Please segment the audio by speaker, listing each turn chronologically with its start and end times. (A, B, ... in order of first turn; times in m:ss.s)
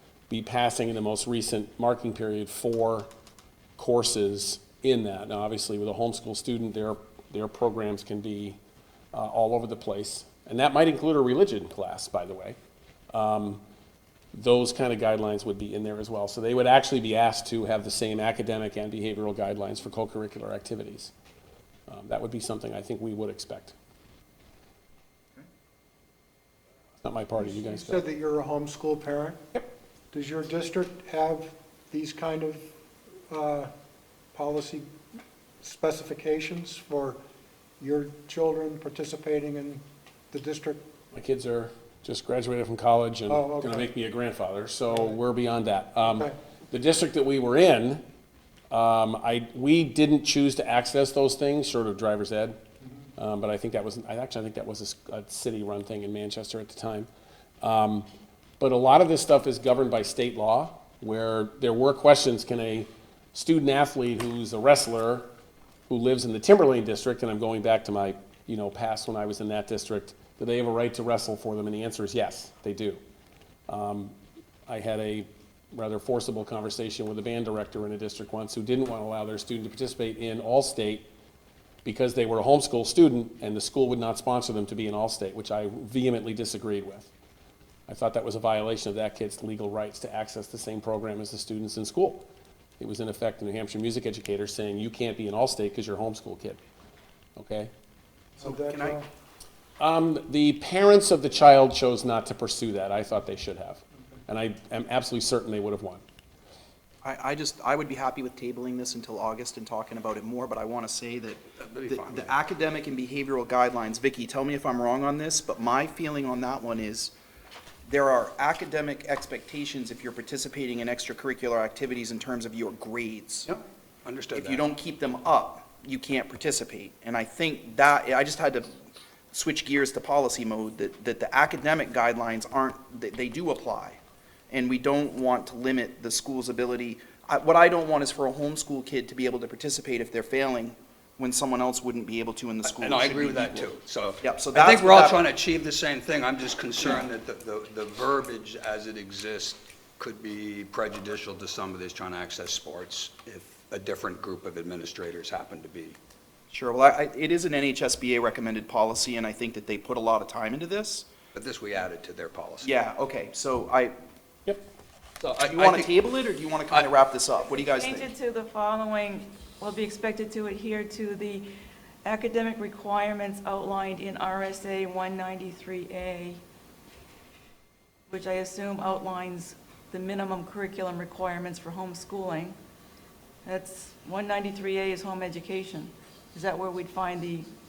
0:00.3-0:03.1 A
0:03.8-0:08.6 A
0:09.1-0:12.6 A
0:13.1-0:13.6 A
0:14.3-0:21.1 A
0:21.9-0:23.7 A
0:27.0-0:28.0 A
0:27.4-0:29.4 B
0:30.1-0:32.6 B
0:33.3-0:33.7 B
0:34.3-0:34.9 B
0:35.6-0:37.2 B
0:37.8-0:40.8 B
0:41.1-0:48.0 A
0:43.3-0:43.9 B
0:44.9-0:45.2 B
0:46.0-0:46.3 B
0:48.7-0:52.6 A
0:53.2-0:57.1 A
0:57.6-0:58.1 A
0:58.6-1:05.3 A
1:05.9-1:13.0 A
1:13.7-1:14.1 A
1:14.7-1:21.1 A
1:21.8-1:27.1 A
1:27.9-1:32.3 A
1:32.8-1:36.6 A
1:37.4-1:37.7 A
1:38.4-1:39.0 B
1:38.4-1:39.0 C
1:39.8-1:46.0 A
1:47.0-1:57.1 C
1:51.6-1:52.3 D
1:57.9-2:03.5 C
2:03.5-2:04.6 D
2:04.3-2:08.8 C
2:09.3-2:14.0 C
2:14.5-2:23.7 C
2:22.6-2:36.0 D
2:24.2-2:25.2 C
2:26.8-2:27.0 C
2:36.5-2:41.1 C
2:41.3-2:42.7 D
2:42.6-2:43.9 C
2:45.2-2:45.9 D
2:45.5-2:48.1 C
2:47.4-2:51.4 E
2:52.0-2:56.4 E
2:58.1-3:02.6 E
3:03.4-3:07.5 E